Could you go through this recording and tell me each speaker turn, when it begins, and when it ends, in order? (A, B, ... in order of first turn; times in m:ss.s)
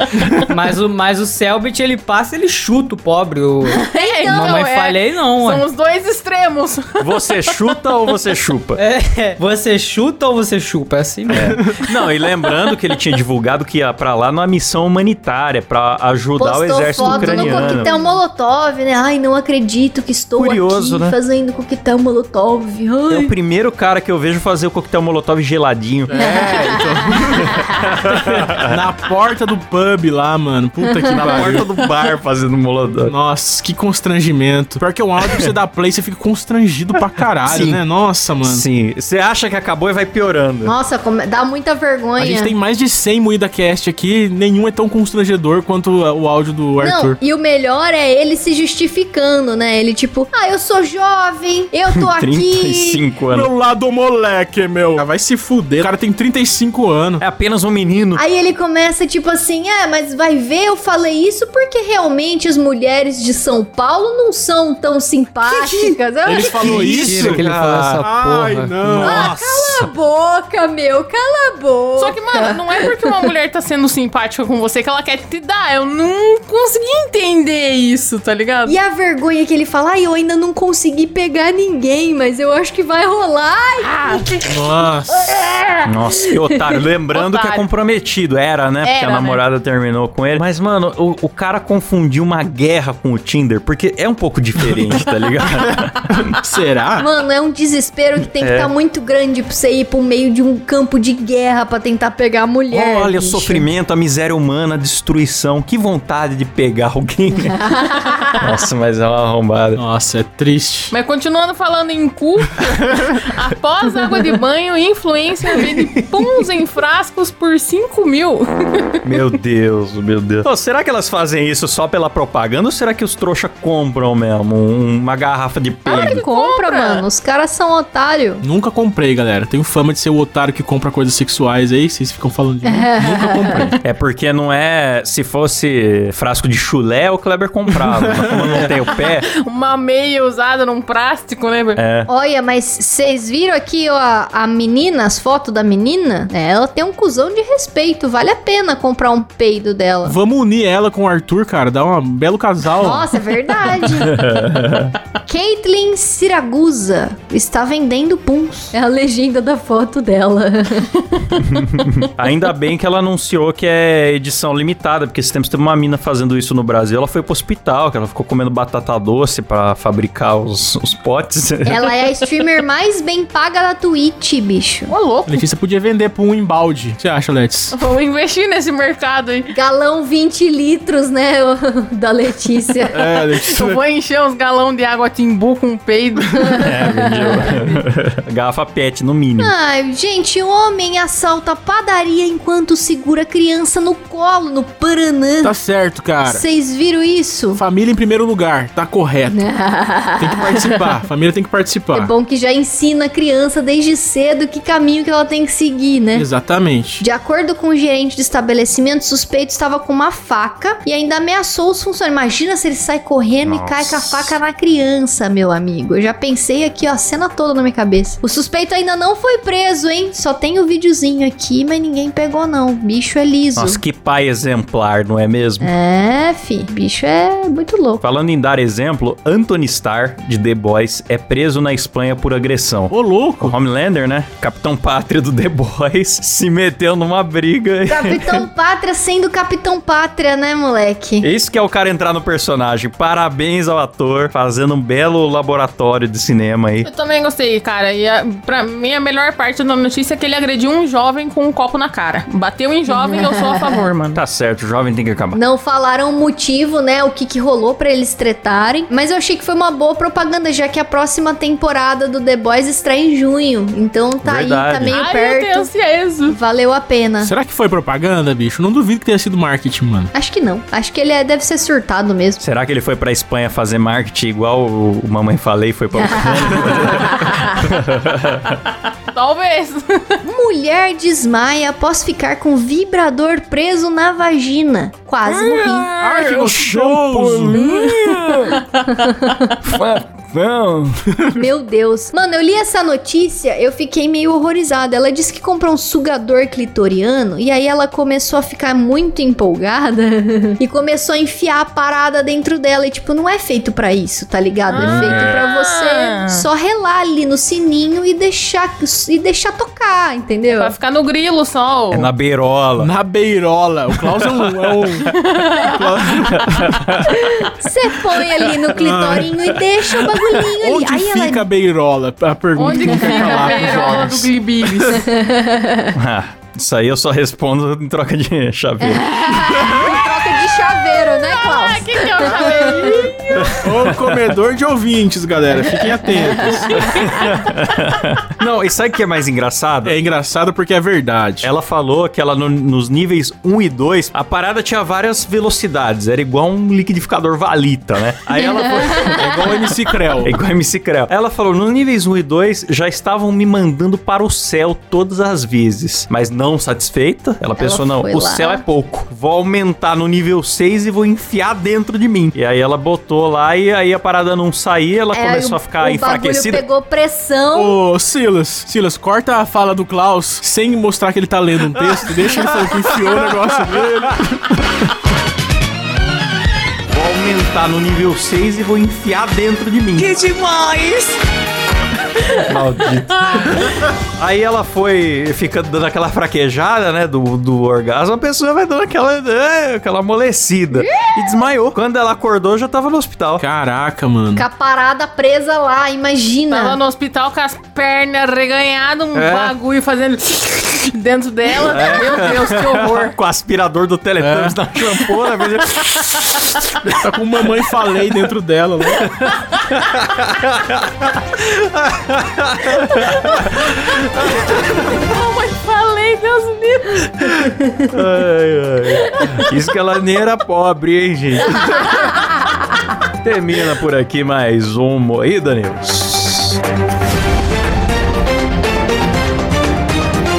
0:00.5-0:05.6 A
0:03.7-0:07.3 B
0:03.9-0:04.6 C
0:07.0-0:08.8 D
0:08.8-0:11.6 A
0:11.3-0:17.9 D
0:16.4-0:23.3 C
0:17.2-0:18.1 A
0:20.4-0:21.2 D
0:23.1-0:26.4 D
0:26.1-0:27.6 E
0:26.2-0:27.5 C
0:27.6-0:28.8 D
0:28.6-0:31.7 E
0:30.8-0:31.3 C
0:31.1-0:33.1 D
0:33.1-0:38.7 E
0:37.4-0:37.8 D
0:38.4-0:40.8 D
0:40.6-0:42.5 C
0:42.2-0:47.2 E
0:46.8-0:53.0 C
0:51.9-0:53.5 D
0:53.3-0:57.2 E
0:57.2-0:58.2 D
0:58.2-1:07.2 C
1:05.5-1:07.5 E
1:06.6-1:09.2 A
1:06.6-1:08.0 D
1:08.0-1:09.3 E
1:08.9-1:09.9 D
1:09.0-1:13.0 C
1:12.0-1:18.8 B
1:18.7-1:24.5 C
1:23.8-1:24.3 B
1:24.4-1:25.4 E
1:25.9-1:36.3 D
1:27.1-1:27.6 B
1:28.8-1:29.4 B
1:36.1-1:37.1 E
1:37.0-1:43.7 C
1:38.4-1:38.7 D
1:42.7-1:47.7 D
1:48.3-1:49.8 D
1:49.8-1:50.9 E
1:50.9-1:58.9 B
1:59.0-2:06.2 D
2:05.9-2:08.4 C
2:05.9-2:07.0 B
2:08.4-2:13.8 E
2:12.6-2:13.7 C
2:13.8-2:19.3 D
2:17.8-2:18.7 E
2:19.4-2:21.8 B
2:21.8-2:22.1 D
2:22.1-2:30.2 C
2:30.0-2:33.1 E
2:32.8-2:34.2 C
2:34.0-2:35.0 D
2:35.3-2:40.9 C
2:41.4-2:52.0 D
2:51.7-2:54.9 C
2:54.9-2:55.4 B
2:55.3-2:57.8 E
2:57.7-2:59.5 B
2:59.5-3:03.0 C
3:02.9-3:03.8 E
3:03.4-3:06.7 B
3:06.4-3:09.5 D
3:09.4-3:15.6 C
3:15.4-3:16.4 E
3:16.2-3:17.6 C
3:17.6-3:19.5 E
3:19.3-3:20.7 C
3:20.2-3:22.1 E
3:21.9-3:26.3 C
3:26.1-3:27.0 E
3:27.0-3:43.8 C
3:33.4-3:34.3 D
3:43.6-3:45.7 D
3:45.6-3:48.0 C
3:48.0-3:58.4 D
3:52.9-3:53.6 E
3:57.9-4:01.3 C
4:01.2-4:06.9 D
4:06.8-4:14.2 B
4:12.9-4:13.8 C
4:14.2-4:15.4 D
4:15.3-4:25.7 C
4:24.2-4:25.0 D
4:24.9-4:26.4 B
4:26.3-4:27.3 C
4:27.2-4:30.1 E
4:30.1-4:32.4 C
4:32.4-4:38.6 D
4:36.2-4:37.3 C
4:39.1-4:40.1 B
4:40.2-4:45.9 C
4:45.3-4:48.6 D
4:46.0-4:47.6 E
4:47.5-4:48.4 C
4:48.9-4:49.4 B
4:49.6-4:50.9 D
4:51.4-5:10.8 C
5:04.7-5:06.5 B
5:04.8-5:05.4 D
5:10.5-5:12.1 B
5:11.9-5:12.9 D
5:12.8-5:15.1 E
5:14.2-5:15.1 D
5:15.1-5:15.7 B
5:15.6-5:17.1 E
5:16.4-5:17.2 D
5:17.0-5:21.5 C
5:18.5-5:19.4 E
5:20.4-5:25.1 E
5:22.6-5:25.1 B
5:22.7-5:24.1 C
5:24.9-5:25.9 C
5:25.9-5:29.9 D
5:28.8-5:33.6 C
5:31.2-5:33.1 B
5:32.3-5:33.1 E
5:33.5-5:34.3 D
5:33.6-5:37.1 E
5:36.1-5:37.1 C
5:36.8-5:37.3 B
5:37.1-5:40.0 D
5:39.8-5:41.5 E
5:41.4-6:06.6 D
5:48.8-5:49.1 C
5:49.2-5:50.4 E
5:57.6-5:58.6 C
6:05.1-6:07.8 C
6:07.5-6:14.5 E
6:12.4-6:12.8 D
6:16.9-6:21.2 D
6:22.4-6:33.4 D
6:30.8-6:31.1 C
6:33.4-6:34.5 E
6:34.4-6:36.8 C
6:36.5-6:43.2 B
6:39.1-6:39.6 D
6:41.7-6:46.6 D
6:44.2-6:44.6 E
6:46.9-6:49.1 E
6:49.7-6:53.7 D
6:54.2-6:57.2 B
6:57.8-7:02.0 D
7:03.2-7:06.6 D